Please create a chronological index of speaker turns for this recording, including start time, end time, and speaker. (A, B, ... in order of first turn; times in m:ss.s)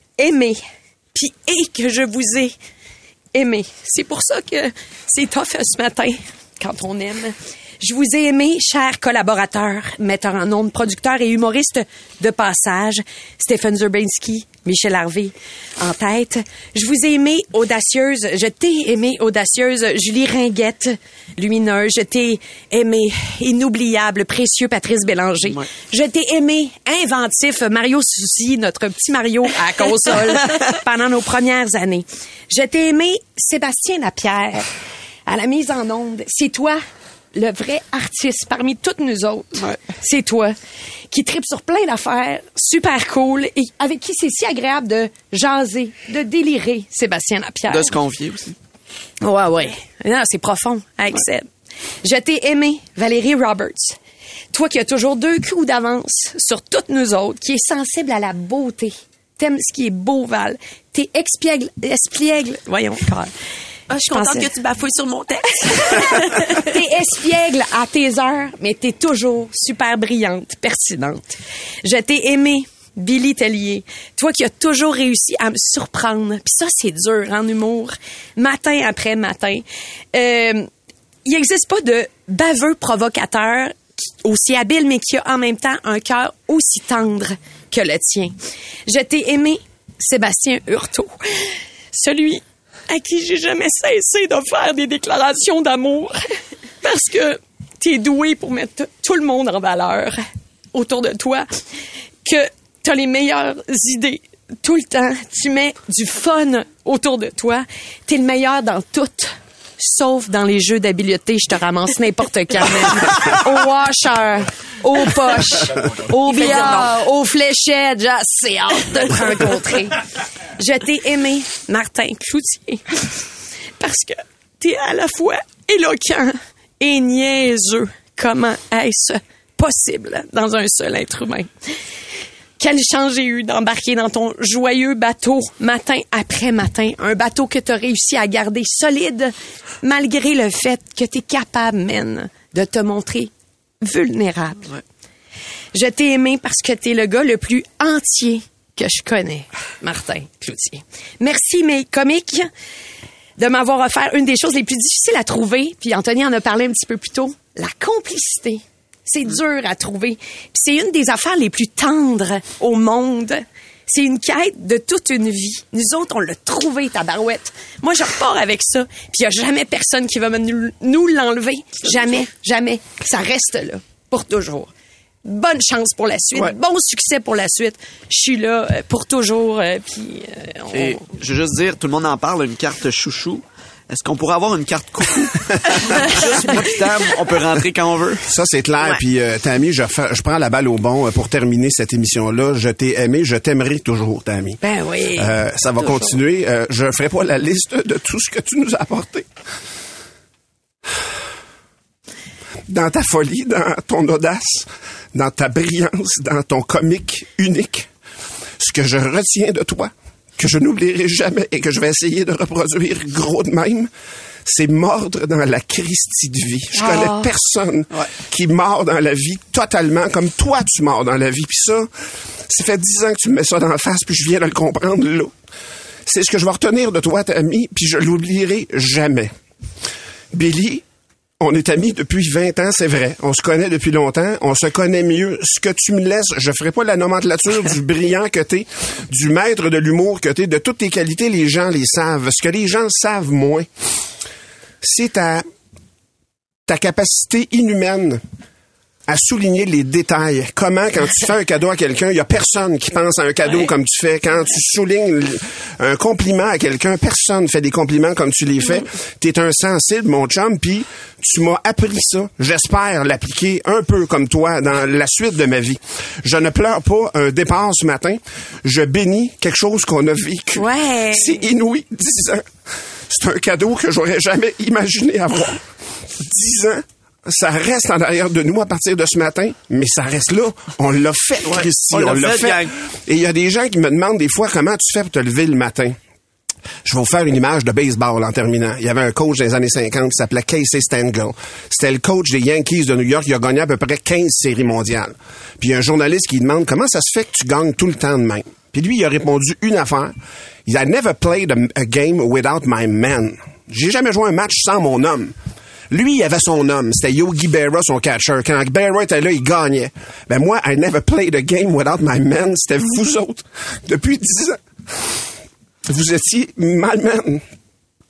0:00.2-0:00.6 A
0:01.1-0:02.5 A
0:03.3-0:34.7 A
0:35.3-0:36.8 A
0:37.3-0:40.6 A
0:41.1-0:47.9 A
0:47.7-0:48.5 B
0:49.2-0:51.5 A
0:52.0-0:54.0 A
0:54.5-1:03.3 A
1:03.9-1:06.7 C
1:04.1-1:04.5 A
1:05.9-1:20.7 A
1:21.2-1:28.3 A
1:28.9-1:36.2 A
1:36.8-1:41.5 A
1:42.2-2:00.0 A
1:56.1-1:56.9 C
2:00.6-2:03.0 A
2:03.8-2:11.5 A
2:12.6-2:24.7 A
2:25.7-2:32.5 A
2:33.4-2:54.7 A
2:55.2-3:01.0 A
3:00.7-3:08.2 B
3:08.3-3:14.6 D
3:14.6-3:16.0 A
3:15.1-3:19.2 D
3:22.7-3:27.9 D
3:28.6-3:33.9 D
3:34.4-3:41.9 D
3:42.5-3:45.3 D
3:46.1-3:49.3 D
3:50.3-3:50.8 D
3:51.4-4:03.7 D
4:04.8-4:05.4 D
4:06.7-4:08.2 D
4:09.1-4:32.4 D
4:30.6-4:31.4 A
4:33.1-4:35.6 D
4:36.2-4:46.0 D
4:41.4-4:42.7 B
4:46.8-5:05.3 D
5:05.9-5:14.6 D
5:15.8-5:17.4 D